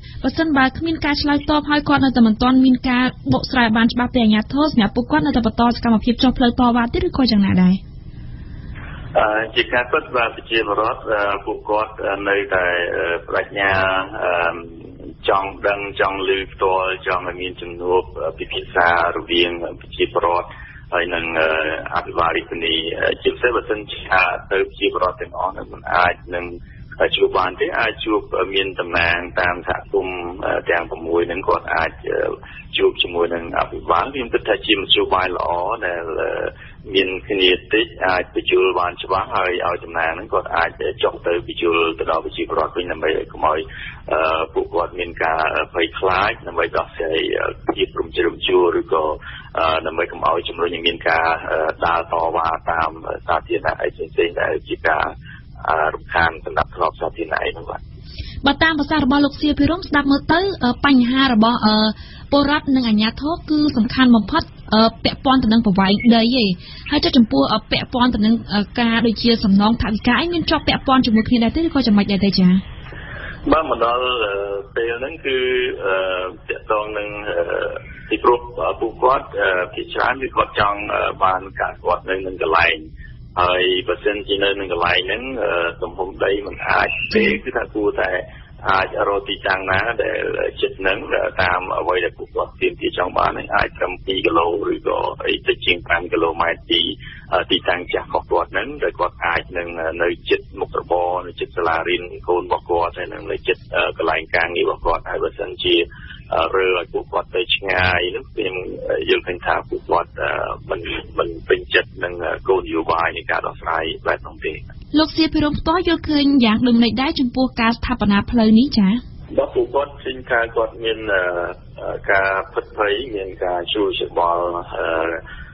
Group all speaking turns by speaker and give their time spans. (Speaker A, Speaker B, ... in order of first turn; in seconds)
Speaker A: 0.2-7.8, 58.4-72.6, 114.9-119.0
Speaker B: 9.1-14.7, 15.2-57.8, 73.5-114.6, 119.3-125.2